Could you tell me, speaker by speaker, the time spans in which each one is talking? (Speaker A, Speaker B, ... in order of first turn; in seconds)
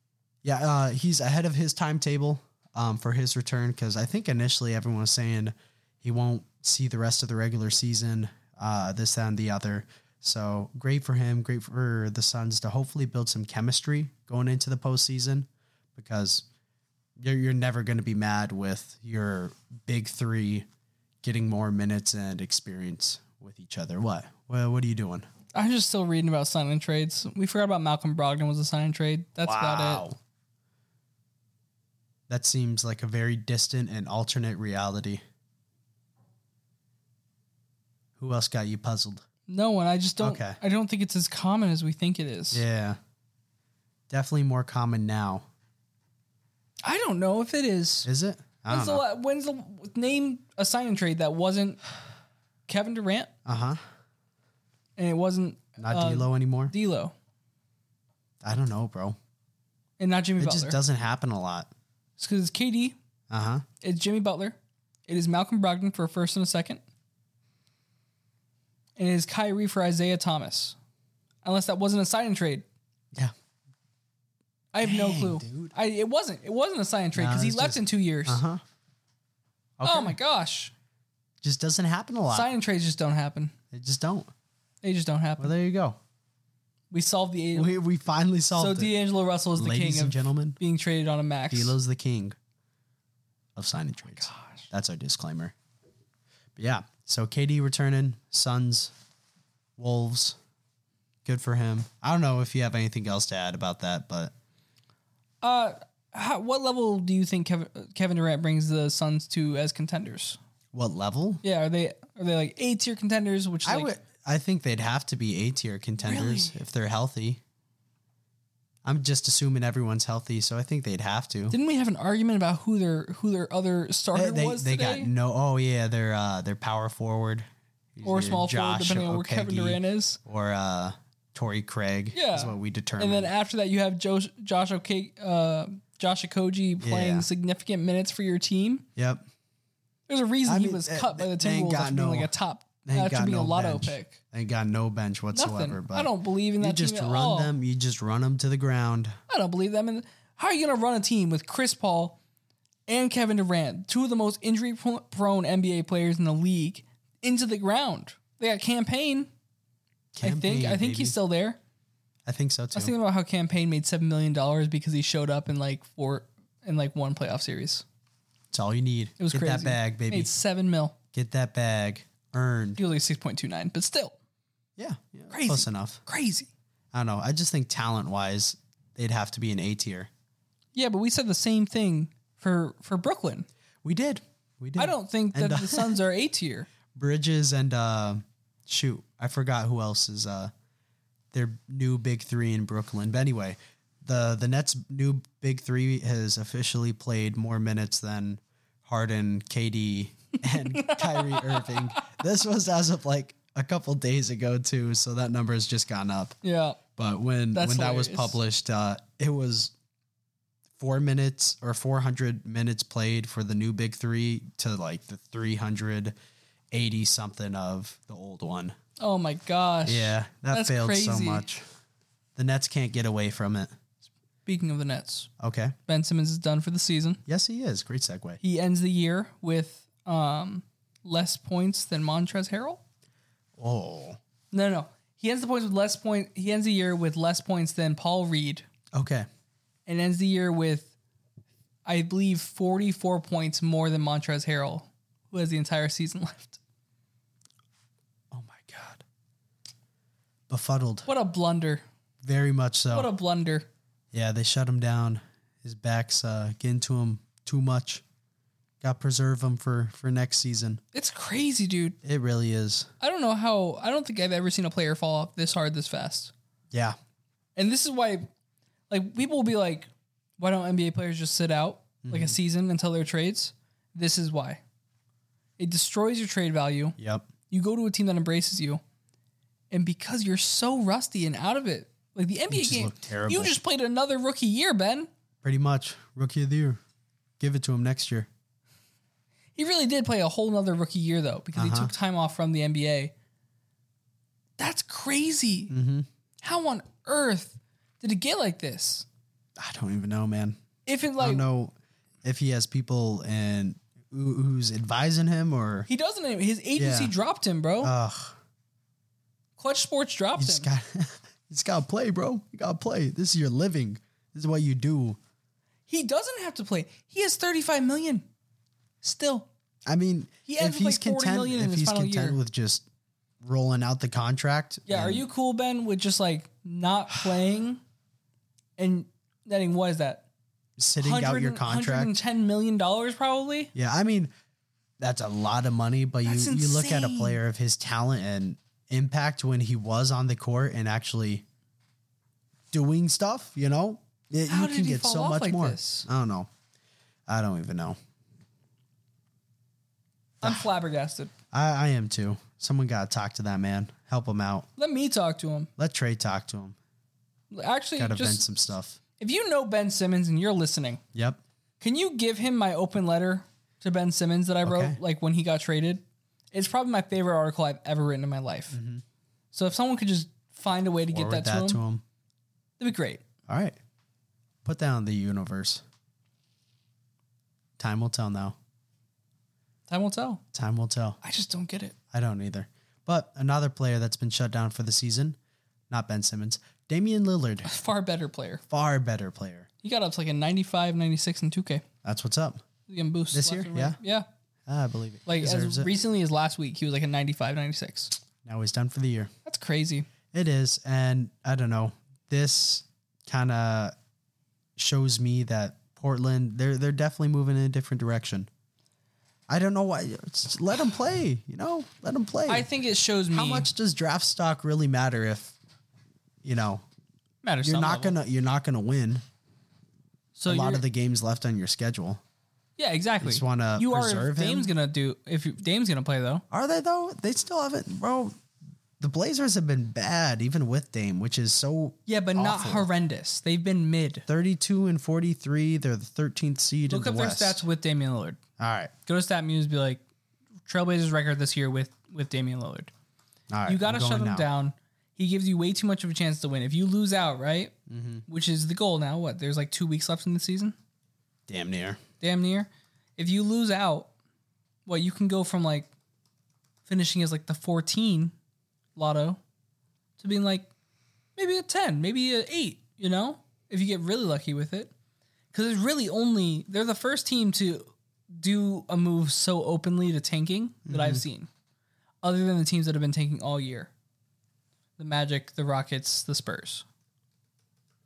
Speaker A: 0.4-16.5, 17.2-20.7, 21.2-25.3, 29.4-30.2, 32.3-35.2, 38.2-39.2, 40.2-40.6, 42.5-43.0, 44.1-45.5, 48.0-49.0, 53.5-53.8, 55.8-56.7, 58.4-59.2, 60.4-61.7, 63.3-63.6, 74.8-75.7, 77.2-78.6, 79.8-80.2, 81.4-82.5, 83.7-84.3, 85.4-86.0, 87.5-89.0, 89.6-90.6, 91.5-92.4, 93.6-95.5, 96.6-98.9, 99.8-100.4, 101.2-104.3, 110.7-111.4, 113.7-117.4, 118.8-121.6, 124.1-133.3, 136.8-137.3, 139.0-139.2, 140.5-142.3, 142.8-149.2, 160.2-161.2, 162.3-162.9, 168.5-170.3, 171.1-172.8, 174.8-176.0, 176.9-180.1, 183.8-186.0, 186.9-190.5, 191.3-206.4, 207.0-209.7, 210.8-216.1, 216.7-218.8, 219.8-221.7, 222.4-223.7, 225.4-225.8, 227.3-228.4, 233.6-234.2, 238.9-239.3, 248.3-249.0, 250.5-251.1, 252.2-253.1, 254.1-258.0, 258.8-260.8, 262.0-262.9, 272.0-272.4, 277.0-277.3, 282.5-283.6, 285.4-286.8, 287.4-288.3, 291.6-291.9, 295.7-296.1, 299.6-300.6, 301.2-305.9, 306.8-307.1, 307.8-308.4, 310.4-315.2, 319.9-322.9, 323.4-325.3, 330.8-332.2, 333.7-334.3, 335.0-341.4, 342.7-346.5, 347.3-348.0, 350.4-350.7, 351.5-354.7, 355.8-356.8, 358.0-359.0, 361.1-361.4, 364.6-365.0, 368.7-369.0, 371.1-372.0, 373.5-373.8, 374.6-375.8, 377.8-378.6, 380.5-381.2, 382.1-385.4, 385.9-387.7, 388.7-389.7, 392.0-392.6, 393.3-394.0, 394.7-395.9, 398.4-399.3, 400.3-403.9, 404.8-408.5, 409.5-412.7, 413.3-415.6, 416.4-416.8, 417.6-419.2, 420.5-422.2, 423.2-424.7, 426.5-428.4, 429.0-432.9, 434.3-437.6, 438.6-438.9, 443.5-444.5, 447.9-448.2, 451.5-452.0, 470.9-471.2
Speaker B: 25.5-30.1, 39.5-42.6, 46.8-48.1, 48.7-51.8, 52.7-53.3, 55.0-57.1, 60.0-60.8, 62.2-63.0, 63.8-66.8, 69.0-70.8, 71.4-72.7, 74.7-78.4, 79.8-80.7, 82.3-83.5, 84.8-85.5, 86.9-87.7, 88.5-91.8, 94.2-94.7, 105.4-110.4, 111.4-113.9, 116.0-116.6, 121.5-125.1, 128.0-130.2, 132.1-138.9, 140.1-144.2, 145.3-147.5, 149.3-152.2, 152.9-159.3, 160.2-161.6, 162.8-167.8, 169.2-171.0, 172.8-174.2, 175.3-176.5, 180.7-183.5, 184.8-186.7, 200.5-202.0, 206.4-206.8, 207.5-208.4, 219.0-221.5, 224.5-225.3, 225.9-227.2, 228.4-232.8, 234.5-238.7, 239.9-240.9, 241.8-246.6, 251.1-251.8, 252.9-253.7, 260.9-262.0, 263.0-266.3, 267.6-268.3, 268.9-274.6, 275.6-277.0, 277.5-278.8, 279.7-285.1, 289.6-293.1, 294.6-295.7, 296.4-299.1, 300.9-301.4, 305.9-307.9, 309.6-310.7, 315.9-318.3, 319.0-319.5, 320.5-322.4, 324.9-327.8, 328.8-330.3, 331.0-333.7, 336.2-337.4, 344.5-346.1, 350.4-351.3, 354.8-355.7, 357.5-358.4, 359.2-361.0, 361.8-368.8, 369.5-371.8, 372.8-373.2, 379.9-380.4, 381.2-382.0, 387.6-388.6, 389.8-391.8, 392.9-394.3, 395.3-398.1, 399.4-400.1, 412.5-413.7, 417.4-418.2, 420.4-420.8, 422.8-426.4, 432.1-434.2, 436.9-438.4, 439.1-440.0, 440.7-442.9, 443.7-447.8, 448.3-450.8, 452.2-454.1, 454.9-455.9, 456.9-458.3, 459.0-459.4, 460.2-460.7, 461.4-464.9, 465.5-471.5, 472.2-473.9, 475.0-476.9